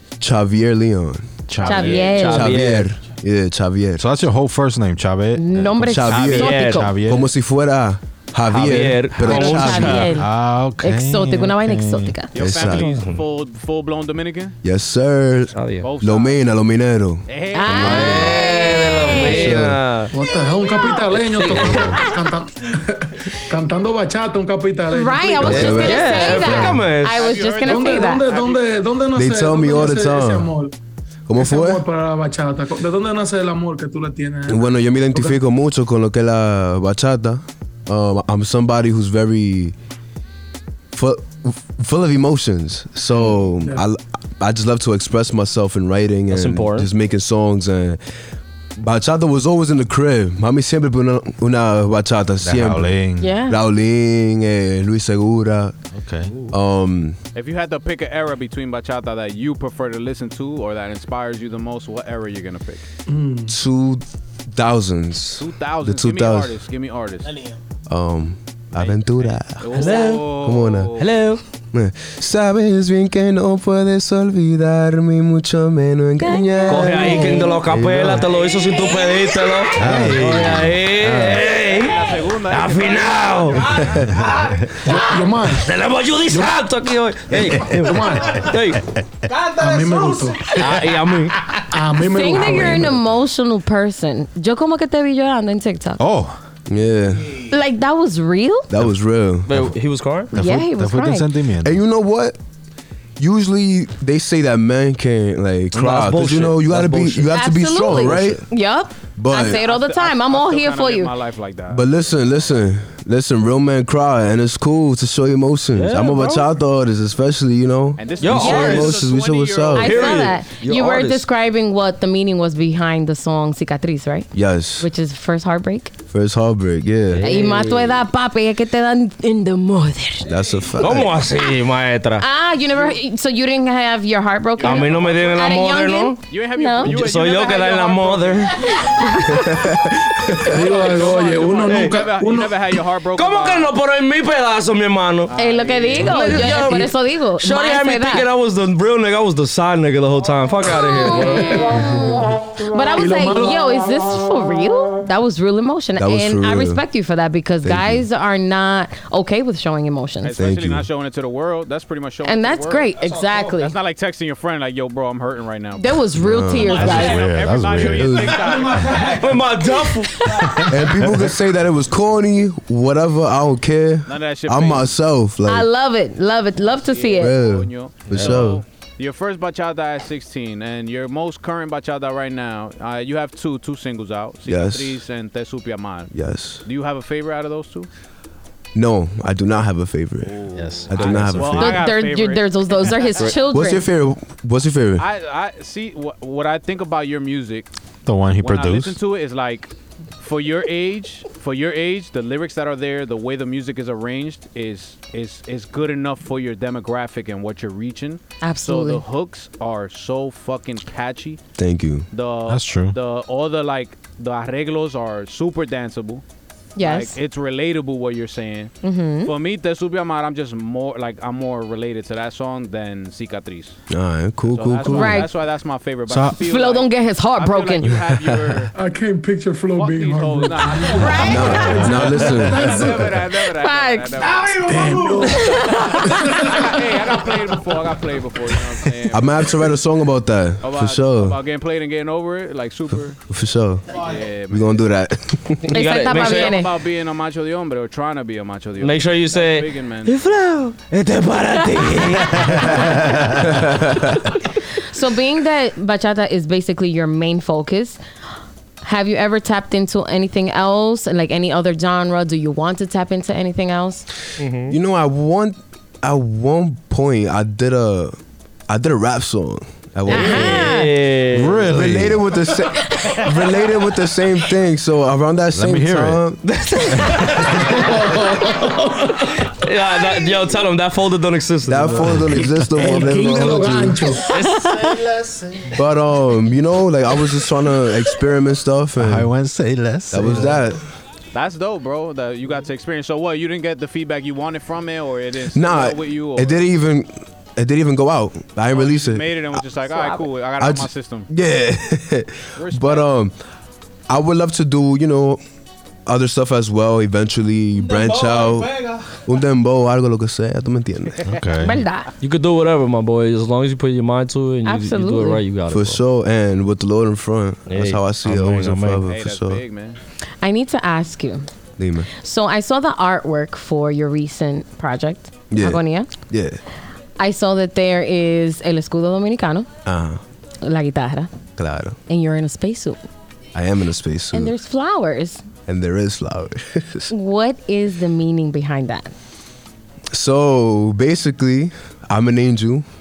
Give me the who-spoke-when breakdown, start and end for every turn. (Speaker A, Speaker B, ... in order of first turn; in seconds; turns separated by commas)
Speaker A: 0.2-4.0, Speaker B: 1.5-1.8, Speaker C: 1.6-2.9, Speaker D: 1.6-2.5, Speaker B: 4.0-7.3, Speaker D: 5.3-6.9, Speaker A: 5.9-10.1, Speaker C: 6.2-6.9, Speaker C: 8.5-10.1, Speaker D: 9.2-12.4, Speaker B: 9.2-12.2, Speaker E: 12.3-14.6, Speaker A: 12.4-12.9, Speaker C: 12.7-13.2, Speaker A: 14.6-18.4, Speaker C: 15.5-15.9, Speaker E: 15.8-16.4, Speaker E: 17.2-18.5, Speaker D: 17.5-19.6, Speaker C: 17.7-20.1, Speaker A: 19.1-19.8, Speaker F: 20.1-25.7, Speaker D: 20.8-21.1, Speaker C: 21.2-22.0, Speaker D: 21.8-22.2, Speaker D: 24.9-28.3, Speaker C: 25.4-27.2, Speaker A: 25.5-26.8, Speaker E: 27.0-28.7, Speaker F: 27.6-30.7, Speaker A: 29.1-30.5, Speaker A: 31.3-31.8, Speaker F: 31.4-35.4, Speaker A: 34.5-39.7, Speaker A: 40.9-48.0, Speaker C: 46.3-46.9, Speaker A: 48.8-55.8, Speaker B: 52.4-53.4, Speaker D: 53.2-53.6, Speaker B: 55.9-56.5, Speaker A: 56.5-57.2, Speaker E: 57.3-62.8, Speaker F: 63.1-63.5, Speaker A: 63.5-66.5, Speaker E: 65.4-67.3, Speaker A: 67.9-71.0, Speaker E: 68.8-71.1, Speaker C: 69.7-70.4, Speaker C: 71.0-71.4, Speaker A: 71.7-78.3, Speaker D: 76.2-77.5, Speaker C: 76.7-83.9, Speaker E: 78.2-78.7, Speaker B: 79.8-81.1, Speaker A: 79.9-80.2, Speaker E: 81.4-84.0, Speaker B: 84.2-84.5, Speaker F: 84.8-85.7, Speaker C: 84.8-88.8, Speaker F: 86.3-86.6, Speaker F: 87.7-88.4, Speaker F: 89.5-90.6, Speaker C: 90.5-91.6, Speaker F: 91.7-93.0, Speaker D: 92.0-96.0, Speaker B: 96.0-96.4, Speaker A: 96.7-97.5, Speaker D: 97.5-98.7, Speaker A: 98.7-99.6, Speaker C: 99.5-100.3, Speaker D: 100.3-101.3, Speaker B: 100.3-101.8, Speaker A: 101.6-102.4, Speaker A: 103.2-108.5, Speaker C: 105.7-107.3, Speaker D: 107.3-111.1, Speaker C: 107.9-108.2, Speaker A: 109.1-109.6, Speaker E: 109.3-112.2, Speaker A: 111.7-120.0, Speaker C: 115.7-116.5, Speaker E: 118.0-120.3, Speaker C: 118.2-119.0, Speaker D: 118.4-118.9, Speaker D: 119.7-126.0, Speaker C: 119.8-121.2, Speaker A: 124.3-124.9, Speaker A: 126.1-127.3, Speaker C: 127.1-128.0, Speaker D: 127.2-130.4, Speaker A: 130.3-131.2, Speaker C: 130.8-132.3, Speaker D: 132.2-136.9, Speaker E: 134.6-135.6, Speaker C: 134.6-138.8, Speaker E: 136.3-138.7, Speaker D: 138.6-139.5, Speaker A: 139.3-140.4, Speaker F: 140.4-142.7, Speaker E: 140.4-143.7, Speaker C: 141.7-141.9, Speaker C: 143.2-145.3, Speaker E: 145.3-146.6, Speaker D: 145.3-148.3, Speaker C: 146.0-151.8, Speaker D: 150.7-160.4, Speaker F: 152.9-153.6, Speaker A: 155.9-156.8, Speaker A: 157.6-158.0, Speaker E: 160.2-166.0, Speaker A: 160.4-160.8, Speaker D: 162.2-163.7, Speaker D: 165.8-167.2, Speaker A: 166.2-166.9, Speaker E: 166.6-169.2, Speaker B: 166.7-168.4, Speaker A: 167.9-168.4, Speaker C: 168.8-170.7, Speaker D: 169.8-170.7, Speaker A: 170.7-175.7, Speaker E: 174.0-174.9, Speaker D: 175.4-177.4, Speaker E: 176.8-187.9, Speaker A: 177.2-178.6, Speaker A: 184.4-185.0, Speaker A: 186.1-186.6, Speaker A: 188.7-191.7, Speaker E: 190.2-193.3, Speaker B: 190.5-191.8, Speaker D: 191.5-193.9, Speaker A: 193.5-195.0, Speaker E: 195.0-197.7, Speaker B: 198.1-199.0, Speaker E: 198.4-211.4, Speaker D: 208.4-209.0, Speaker A: 211.6-212.1, Speaker E: 212.1-216.2, Speaker B: 212.5-212.9, Speaker D: 216.8-217.2, Speaker E: 216.8-223.8, Speaker D: 218.8-219.3, Speaker A: 223.9-225.2, Speaker E: 224.5-228.7, Speaker D: 224.8-225.3, Speaker B: 226.1-226.4, Speaker D: 226.4-227.9, Speaker A: 228.2-228.6, Speaker F: 228.7-233.2, Speaker E: 229.7-239.6, Speaker D: 230.9-231.9, Speaker A: 231.2-232.8, Speaker D: 233.2-234.2, Speaker F: 234.6-236.6, Speaker D: 235.3-236.3, Speaker A: 239.1-241.4, Speaker E: 240.6-243.2, Speaker A: 243.3-243.9, Speaker E: 243.9-244.9, Speaker A: 244.5-245.7, Speaker C: 245.7-246.6, Speaker D: 245.7-246.7, Speaker E: 246.1-250.1, Speaker C: 248.8-253.5, Speaker B: 252.4-253.4, Speaker A: 253.4-254.2, Speaker D: 254.8-258.0, Speaker D: 258.8-264.0, Speaker C: 264.4-264.8, Speaker A: 264.7-268.2, Speaker A: 268.7-270.8, Speaker D: 270.1-270.9, Speaker C: 270.1-271.7, Speaker B: 271.3-272.3, Speaker A: 271.7-276.4, Speaker D: 272.8-273.5, Speaker B: 275.5-276.2, Speaker C: 276.4-283.4, Speaker B: 276.9-277.6, Speaker F: 277.7-278.5, Speaker A: 281.6-284.1, Speaker B: 282.1-282.4, Speaker F: 282.7-284.3, Speaker C: 284.1-285.0, Speaker B: 285.2-285.7, Speaker A: 285.7-289.3, Speaker B: 288.9-290.6, Speaker A: 290.1-290.8, Speaker E: 291.3-296.6, Speaker A: 295.5-299.6, Speaker E: 298.7-301.3, Speaker D: 299.9-300.2, Speaker A: 300.6-303.4, Speaker E: 302.5-303.1, Speaker A: 304.1-305.4, Speaker A: 306.1-311.2, Speaker E: 311.2-311.5, Speaker B: 311.2-311.8, Speaker D: 311.6-312.1, Speaker C: 312.2-316.0, Speaker D: 314.6-315.4, Speaker A: 315.7-319.6, Speaker C: 317.7-319.0, Speaker E: 319.0-320.0, Speaker D: 320.4-321.5, Speaker A: 321.8-322.1, Speaker D: 322.1-326.1, Speaker A: 325.5-326.6, Speaker D: 327.2-329.7, Speaker A: 329.8-330.2, Speaker D: 330.6-331.5, Speaker A: 331.5-332.0, Speaker D: 332.1-333.0, Speaker A: 333.5-334.6, Speaker D: 334.3-335.4, Speaker A: 335.6-337.1, Speaker D: 337.1-339.1, Speaker A: 340.1-342.8